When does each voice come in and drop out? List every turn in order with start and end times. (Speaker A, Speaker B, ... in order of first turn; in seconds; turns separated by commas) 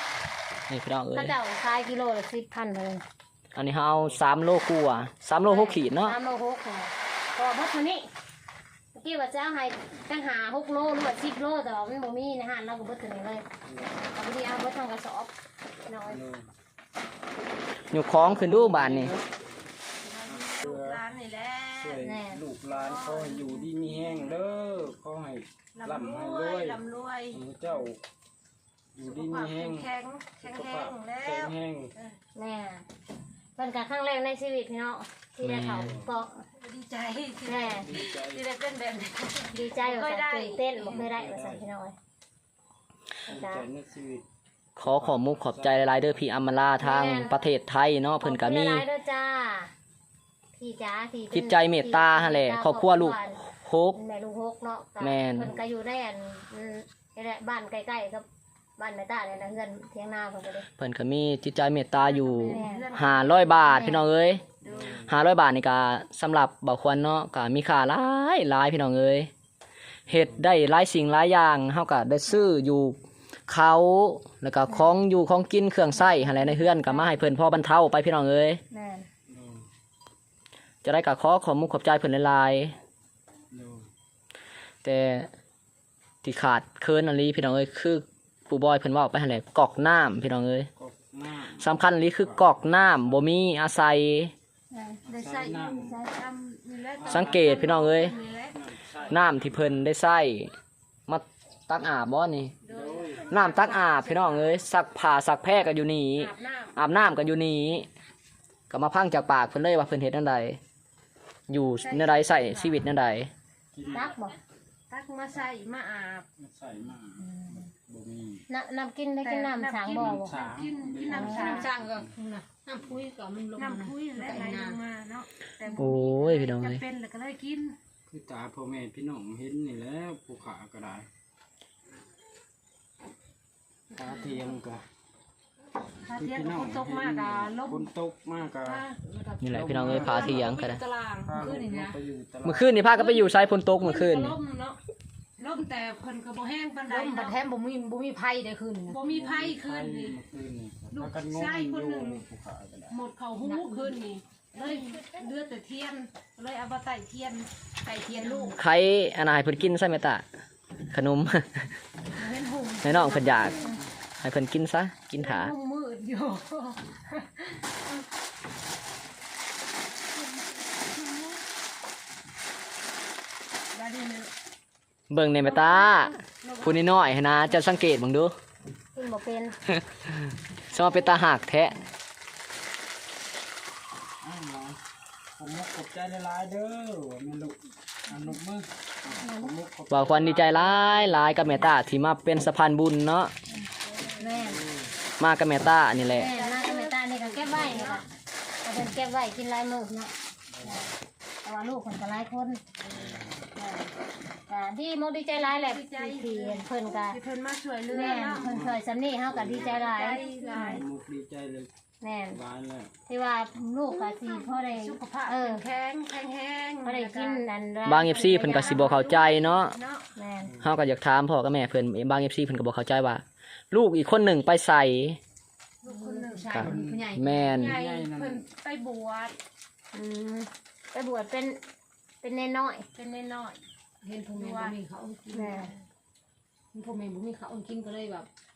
Speaker A: 0.7-1.3, Speaker B: 1.1-3.0, Speaker A: 3.5-6.2, Speaker B: 5.5-8.1, Speaker B: 8.9-13.4, Speaker C: 13.7-14.1, Speaker B: 14.1-15.3, Speaker B: 15.9-16.2, Speaker C: 16.1-16.5, Speaker A: 17.9-19.2, Speaker C: 18.2-19.3, Speaker D: 20.0-22.0, Speaker C: 20.3-21.0, Speaker C: 21.7-28.0, Speaker B: 22.0-22.4, Speaker D: 22.7-23.7, Speaker D: 25.8-27.4, Speaker C: 29.0-31.9, Speaker D: 29.0-32.2, Speaker B: 32.4-32.9, Speaker B: 33.6-36.5, Speaker A: 35.4-36.0, Speaker D: 36.6-41.0, Speaker B: 37.5-37.9, Speaker C: 37.6-38.5, Speaker B: 39.5-42.0, Speaker C: 40.9-41.7, Speaker B: 43.3-43.6, Speaker C: 43.3-44.3, Speaker A: 44.8-48.8, Speaker C: 44.8-46.0, Speaker B: 46.8-47.4, Speaker B: 48.2-49.7, Speaker B: 50.6-53.4, Speaker A: 51.3-54.0, Speaker B: 54.0-58.2, Speaker A: 55.0-55.5, Speaker B: 58.8-60.7, Speaker A: 60.8-64.4, Speaker D: 62.2-63.9, Speaker B: 62.3-63.0, Speaker B: 63.7-64.0, Speaker D: 64.6-65.0, Speaker C: 64.7-65.1, Speaker A: 65.0-69.3, Speaker A: 70.1-73.0, Speaker A: 73.5-78.6, Speaker B: 74.7-74.9, Speaker B: 76.0-77.2, Speaker B: 78.7-79.1, Speaker C: 79.3-79.7, Speaker A: 80.8-82.8, Speaker C: 83.5-83.9, Speaker A: 84.8-85.3, Speaker A: 86.2-90.7, Speaker C: 90.8-92.5, Speaker A: 91.6-94.3, Speaker B: 94.7-95.0, Speaker C: 95.0-96.0, Speaker D: 95.1-98.6, Speaker B: 95.8-96.1, Speaker C: 97.0-97.6, Speaker A: 97.1-98.1, Speaker C: 98.5-99.8, Speaker A: 99.1-100.5, Speaker A: 101.1-102.5, Speaker D: 102.6-104.5, Speaker C: 102.7-103.4, Speaker A: 103.3-107.9, Speaker D: 106.2-106.8, Speaker A: 108.7-110.6, Speaker A: 111.5-113.3, Speaker D: 111.8-112.8, Speaker C: 113.7-114.1, Speaker B: 113.9-114.4, Speaker D: 114.9-116.3, Speaker C: 116.4-118.5, Speaker B: 118.5-120.3, Speaker D: 119.2-121.7, Speaker C: 119.9-122.1, Speaker B: 121.1-121.7, Speaker E: 121.4-124.8, Speaker D: 123.5-127.8, Speaker A: 125.7-126.8, Speaker C: 128.1-131.1, Speaker C: 133.9-134.8, Speaker D: 136.0-137.9, Speaker C: 136.2-138.9, Speaker D: 138.6-142.0, Speaker A: 139.4-140.8, Speaker C: 139.5-140.6, Speaker C: 141.2-142.8, Speaker E: 141.4-141.8, Speaker A: 142.4-144.3, Speaker D: 142.9-144.8, Speaker D: 145.4-147.4, Speaker E: 146.9-149.0, Speaker D: 148.9-150.2, Speaker C: 149.1-153.0, Speaker D: 150.9-152.2, Speaker D: 152.9-158.6, Speaker E: 153.4-154.0, Speaker B: 154.7-155.0, Speaker E: 158.1-158.4, Speaker A: 158.5-160.2, Speaker A: 160.9-161.7, Speaker D: 162.2-163.8, Speaker A: 162.8-163.6, Speaker A: 164.2-165.5, Speaker D: 165.2-167.4, Speaker D: 170.6-171.4, Speaker D: 173.7-174.3, Speaker A: 175.1-178.3, Speaker D: 175.4-177.0, Speaker B: 178.9-179.6, Speaker A: 180.7-181.8, Speaker C: 184.2-184.8, Speaker C: 185.4-191.4, Speaker B: 189.2-189.6, Speaker A: 189.9-193.3, Speaker B: 194.2-194.6, Speaker C: 194.4-194.9, Speaker A: 195.2-196.3, Speaker B: 196.1-198.1, Speaker D: 196.3-198.0, Speaker B: 198.6-200.9, Speaker C: 200.6-200.9, Speaker B: 201.4-202.6, Speaker C: 202.9-203.4, Speaker B: 203.6-203.9, Speaker B: 204.5-207.2, Speaker D: 205.3-208.6, Speaker B: 207.9-210.8, Speaker C: 208.2-211.7, Speaker D: 209.5-210.9, Speaker B: 212.0-212.4, Speaker C: 212.3-212.9, Speaker B: 213.1-215.6, Speaker D: 213.9-217.4, Speaker B: 216.8-218.9, Speaker A: 217.8-219.8, Speaker D: 218.1-220.1, Speaker B: 220.2-220.6, Speaker A: 220.6-225.2, Speaker D: 225.8-229.4, Speaker B: 225.9-226.2, Speaker E: 226.1-227.6, Speaker A: 226.5-227.8, Speaker C: 226.6-228.5, Speaker B: 229.9-231.6, Speaker B: 232.2-232.9, Speaker D: 232.9-233.6, Speaker E: 234.0-234.8, Speaker D: 234.3-235.7, Speaker B: 235.3-235.7, Speaker E: 236.7-238.3